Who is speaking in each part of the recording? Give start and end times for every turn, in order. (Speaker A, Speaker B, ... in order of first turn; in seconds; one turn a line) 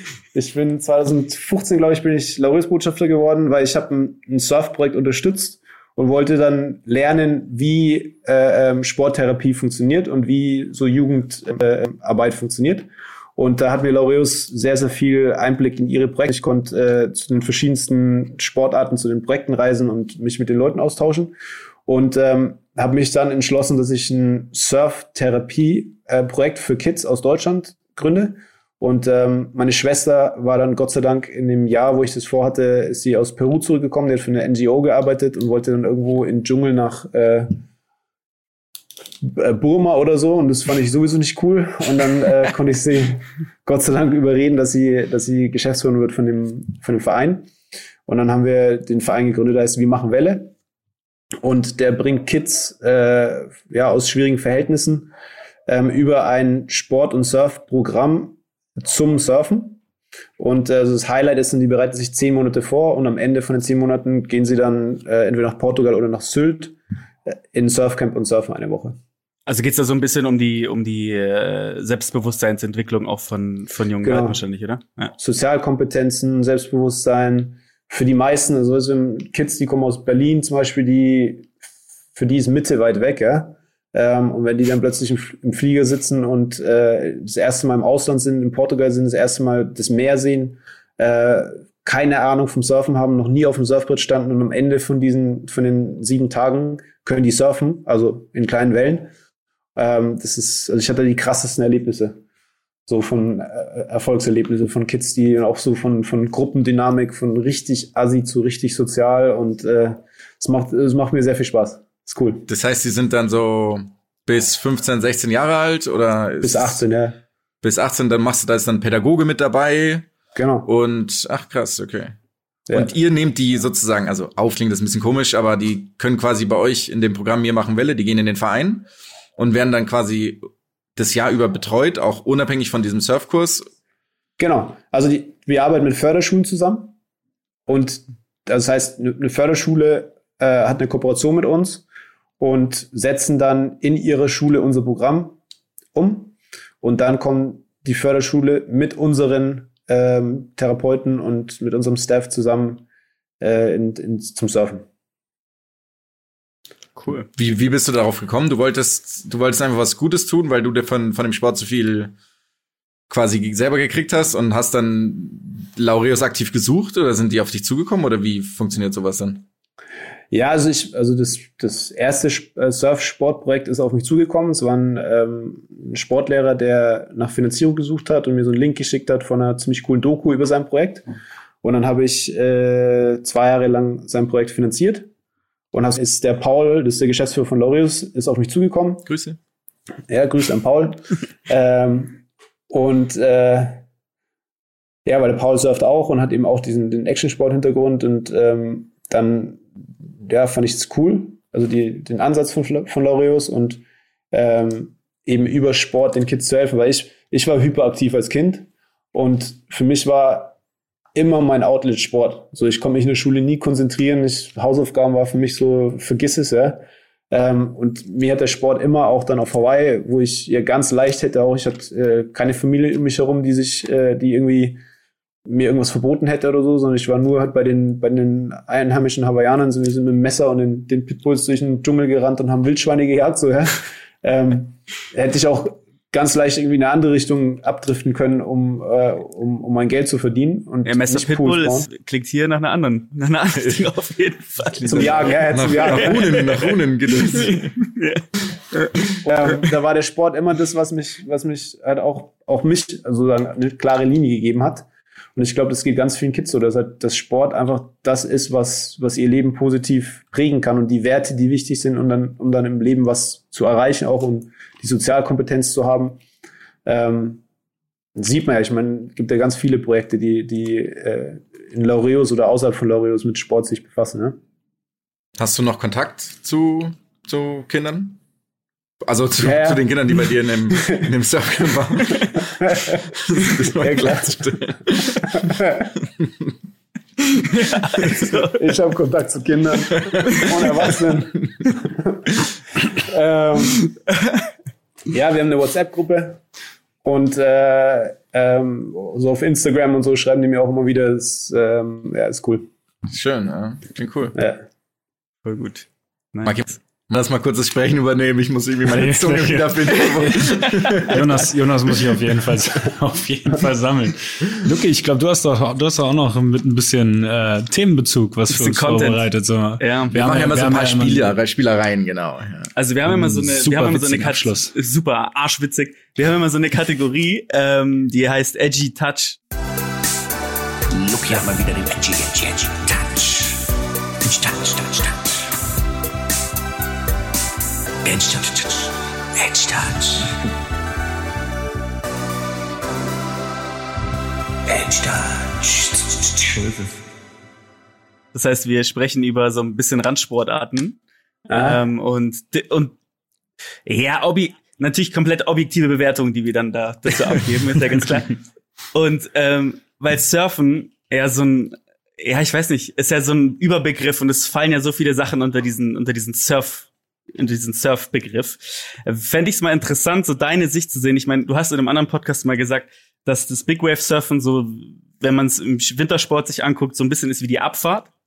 Speaker A: 0.3-21.3
Speaker A: 21.9-37.6
Speaker A: 39.2-47.5
Speaker A: 48.1-50.5
Speaker A: 51.4-55.1
Speaker A: 55.7-59.8
Speaker A: 60.4-69.0
Speaker B: 69.5-75.1
Speaker A: 74.0-74.4
Speaker A: 75.2-81.5
Speaker A: 82.2-99.1
Speaker A: 99.8-102.2
Speaker A: 102.9-112.5
Speaker C: 112.5-116.8
Speaker A: 116.4-117.2
Speaker C: 117.6-120.1
Speaker A: 120.3-120.7
Speaker C: 120.7-122.2
Speaker C: 122.7-130.4
Speaker C: 131.0-133.7
Speaker A: 134.4-136.9
Speaker A: 137.7-141.9
Speaker A: 142.4-145.4
Speaker A: 145.9-152.8
Speaker A: 153.4-154.8
Speaker B: 157.0-157.3
Speaker C: 157.4-162.2
Speaker C: 163.1-169.4
Speaker A: 170.3-181.1
Speaker A: 181.6-185.1
Speaker A: 185.7-189.1
Speaker C: 189.1-189.4
Speaker A: 190.1-193.8
Speaker A: 195.1-199.7
Speaker A: 200.2-210.6
Speaker A: 211.2-224.8
Speaker A: 225.5-241.9
Speaker B: 240.8-248.2
Speaker C: 244.8-247.7
Speaker A: 244.9-246.4
Speaker A: 249.2-266.2
Speaker A: 266.9-267.4
Speaker A: 268.2-274.4
Speaker C: 275.4-278.2
Speaker C: 279.0-282.6
Speaker A: 279.4-280.0
Speaker A: 280.8-281.1
Speaker A: 281.6-285.9
Speaker C: 283.3-285.5
Speaker B: 287.4-288.6
Speaker A: 288.3-292.2
Speaker C: 289.9-290.5
Speaker A: 292.8-293.9
Speaker A: 295.1-296.4
Speaker A: 297.0-302.7
Speaker C: 303.1-304.4
Speaker A: 304.4-304.6
Speaker B: 305.4-306.7
Speaker C: 306.4-311.4
Speaker D: 308.9-321.3
Speaker B: 318.5-319.3
Speaker B: 319.8-320.2
Speaker C: 320.1-322.7
Speaker B: 322.8-329.4
Speaker D: 323.1-324.7
Speaker E: 330.9-333.7
Speaker E: 334.2-335.5
Speaker E: 338.0-340.4
Speaker E: 344.7-346.7
Speaker B: 346.6-347.0
Speaker B: 348.3-351.0
Speaker A: 351.5-351.8
Speaker B: 351.5-352.9
Speaker B: 353.9-358.4
Speaker B: 358.9-378.1